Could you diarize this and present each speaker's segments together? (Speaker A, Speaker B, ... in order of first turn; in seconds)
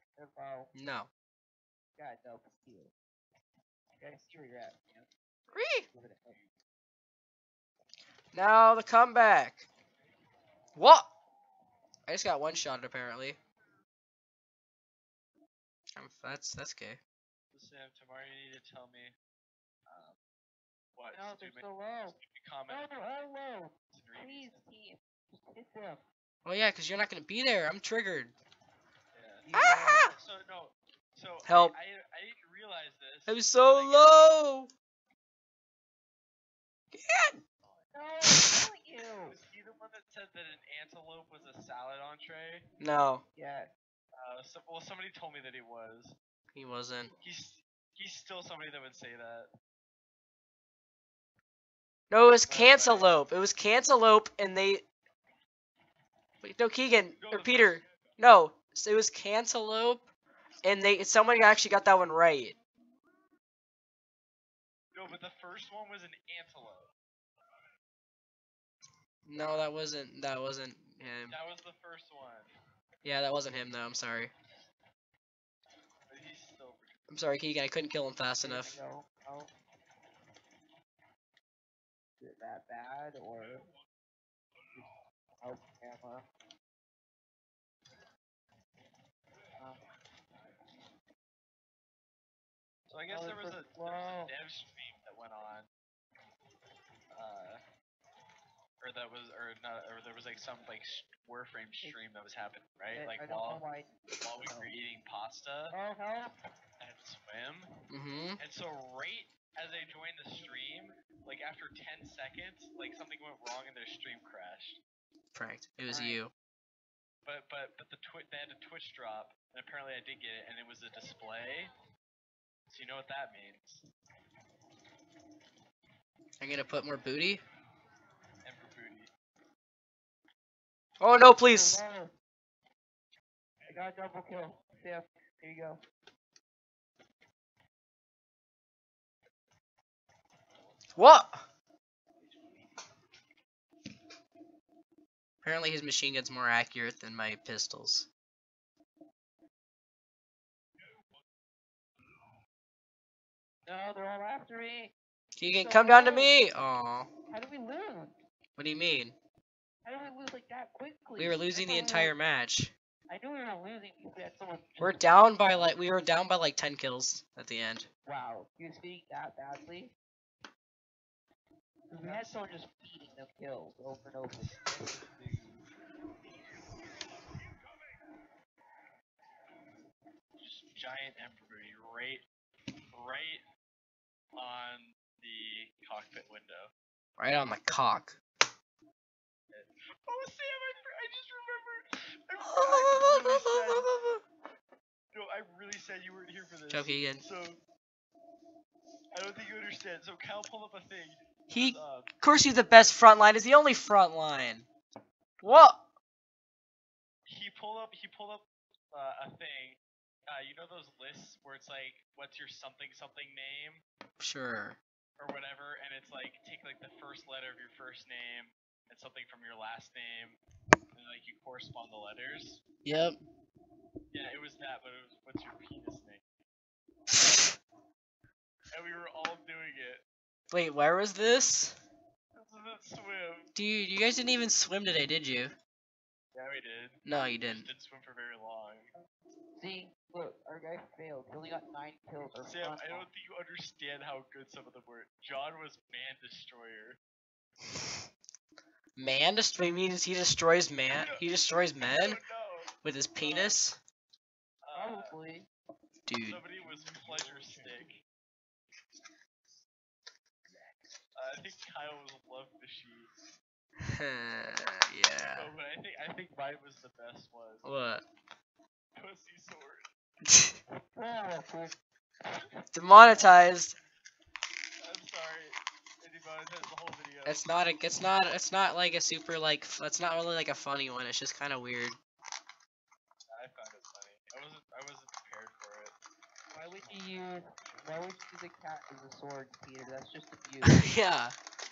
Speaker A: 0.2-0.7, 2.0-2.9, 4.0-5.1, 5.8-6.4, 21.1-22.2, 22.7-26.0, 29.4-30.1, 37.9-39.4, 43.4-43.7, 78.4-79.5, 82.2-83.7, 85.4-86.2, 89.6-89.8, 93.1-94.3, 102.9-104.7, 105.7-106.3, 115.9-116.2, 131.3-132.1, 133.7-135.8, 153.7-154.9, 155.6-156.3, 157.3-158.2, 159.8-162.1, 163.1-165.1, 168.1-169.9, 171.9-174.6, 239.6-243.1, 254.7-255.5, 270.9-271.8, 286.5-290.9
Speaker B: 0.7-1.1, 5.5-5.9, 8.3-9.7, 10.8-11.1, 12.1-13.4, 15.9-17.0, 26.4-28.3, 29.5-30.1, 31.5-31.8, 33.3-34.7, 36.9-37.4, 42.8-43.2, 46.5-47.1, 52.1-54.8, 56.4-60.1, 60.6-62.6, 69.3-71.4, 73.0-74.3, 77.1-78.8, 107.9-108.4, 115.3-116.3, 126.4-127.4, 131.0-131.8, 141.0-141.5, 145.4-148.1, 155.4-157.1, 158.6-159.2, 161.2-162.7, 164.8-167.9, 187.2-188.2, 192.4-194.2, 196.7-197.2, 201.5-204.7, 205.4-205.8, 214.2-214.8, 222.8-223.2, 227.1-227.5, 230.5-231.8, 233.6-235.5, 237.1-237.7, 249.0-252.2, 252.8-253.8, 256.1-256.4, 263.8-265.5, 267.6-268.0, 270.2-270.6, 272.7-273.7, 277.3-282.0, 290.6-291.3
Speaker C: 17.5-19.1, 19.9-20.2, 20.9-22.9, 23.9-24.6, 29.1-29.4, 30.1-34.3, 39.3-42.7, 44.2-46.2, 47.2-49.5, 52.5-53.1, 57.2-57.8, 64.9-66.9, 71.3-72.5, 76.1-76.9, 92.9-95.7, 97.1-97.6, 98.8-103.6, 104.2-105.8, 106.8-107.7, 108.4-114.8, 117.2-121.7, 122.7-123.8, 128.4-129.1, 172.0-172.4, 174.6-175.6, 180.4-182.2, 182.9-183.4, 184.4-186.7, 189.5-193.9, 195.1-197.6, 199.1-202.1, 207.3-213.8, 215.2-220.4, 220.9-222.6, 224.1-226.2, 228.7-230.0, 232.3-233.5, 236.3-238.9, 242.4-247.0, 250.9-251.2, 251.8-253.6, 254.6-255.2, 256.3-258.0, 261.1-263.1, 265.2-267.7, 268.9-269.9, 274.8-277.6, 283.3-285.9